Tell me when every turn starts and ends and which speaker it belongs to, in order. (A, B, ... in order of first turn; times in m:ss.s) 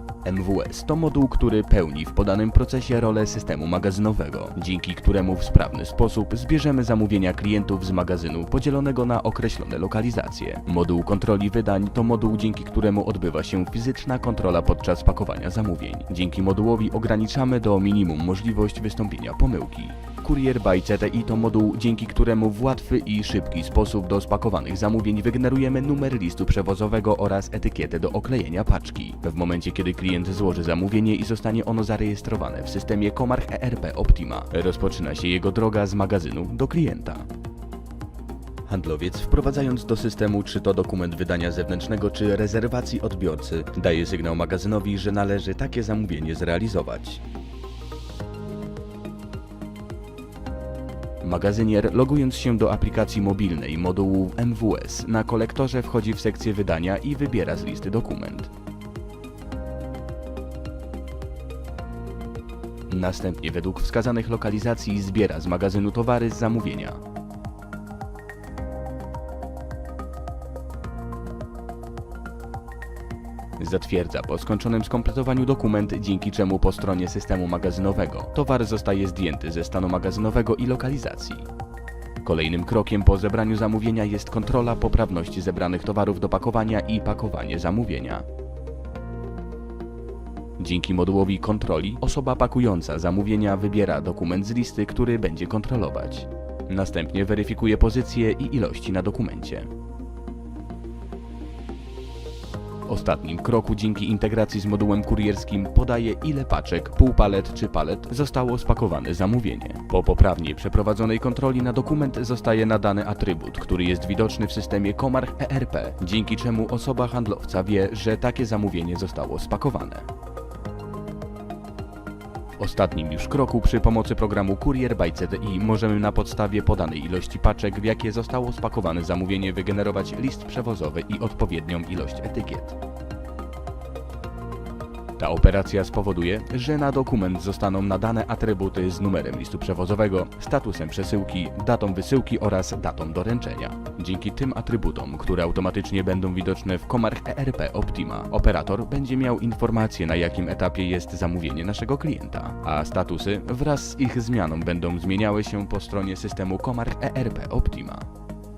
0:00.2-0:37.3 A
0:38.7-0:47.2 A
0:51.2-0:58.5 A
1:02.9-1:07.0 A
1:13.6-1:21.5 A
1:22.2-1:28.2 A
1:30.6-1:39.7 A
1:42.9-2:00.1 A
2:02.6-2:12.8 A
2:15.2-2:38.1 A